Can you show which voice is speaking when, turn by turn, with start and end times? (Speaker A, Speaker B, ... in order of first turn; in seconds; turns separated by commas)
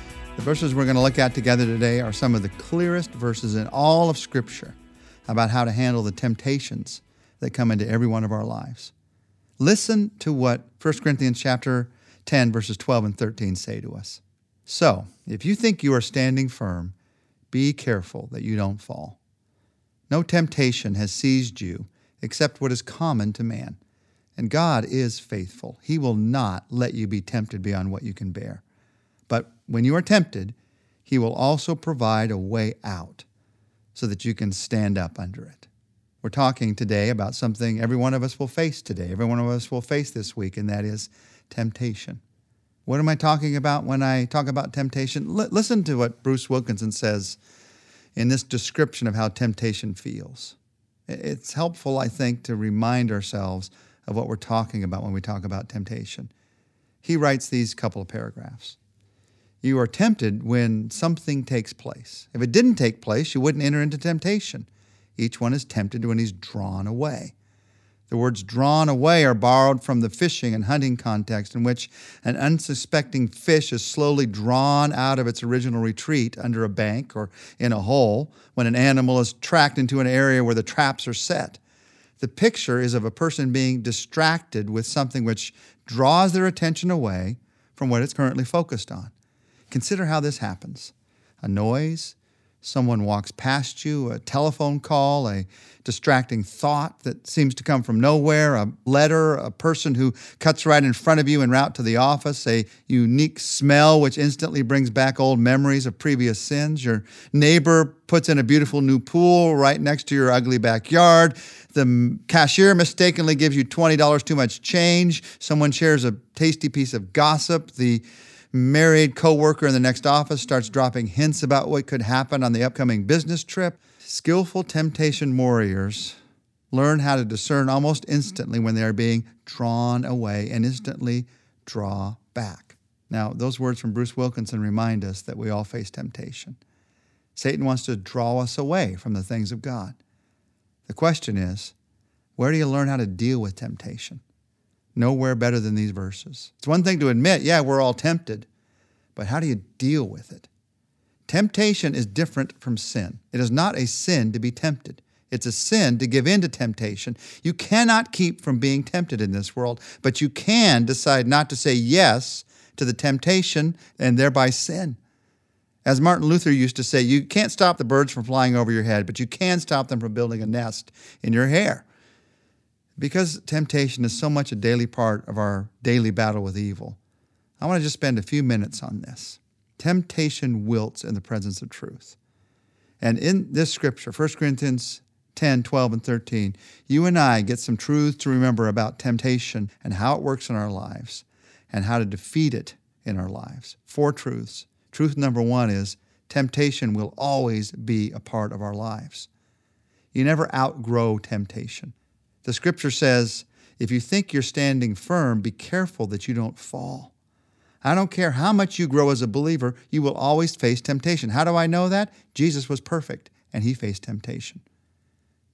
Speaker A: 0.3-8.9, Speaker A: 9.6-16.9, Speaker A: 17.5-19.2, Speaker A: 20.1-23.8, Speaker A: 24.4-28.6, Speaker A: 29.3-33.2, Speaker A: 33.9-35.7, Speaker A: 36.2-42.2, Speaker A: 42.9-47.4, Speaker A: 48.1-50.5, Speaker A: 51.1-56.3, Speaker A: 57.0-58.8, Speaker A: 59.6-67.3, Speaker A: 68.1-81.6, Speaker A: 82.2-89.1, Speaker A: 89.7-126.2, Speaker A: 126.7-136.6, Speaker A: 137.3-140.0, Speaker A: 140.8-141.7, Speaker A: 142.3-144.2, Speaker A: 144.9-148.5, Speaker A: 149.2-150.5, Speaker A: 151.3-165.0, Speaker A: 165.8-171.8, Speaker A: 173.0-177.0, Speaker A: 177.6-182.2, Speaker A: 183.0-199.3, Speaker A: 200.1-207.1, Speaker A: 207.8-214.6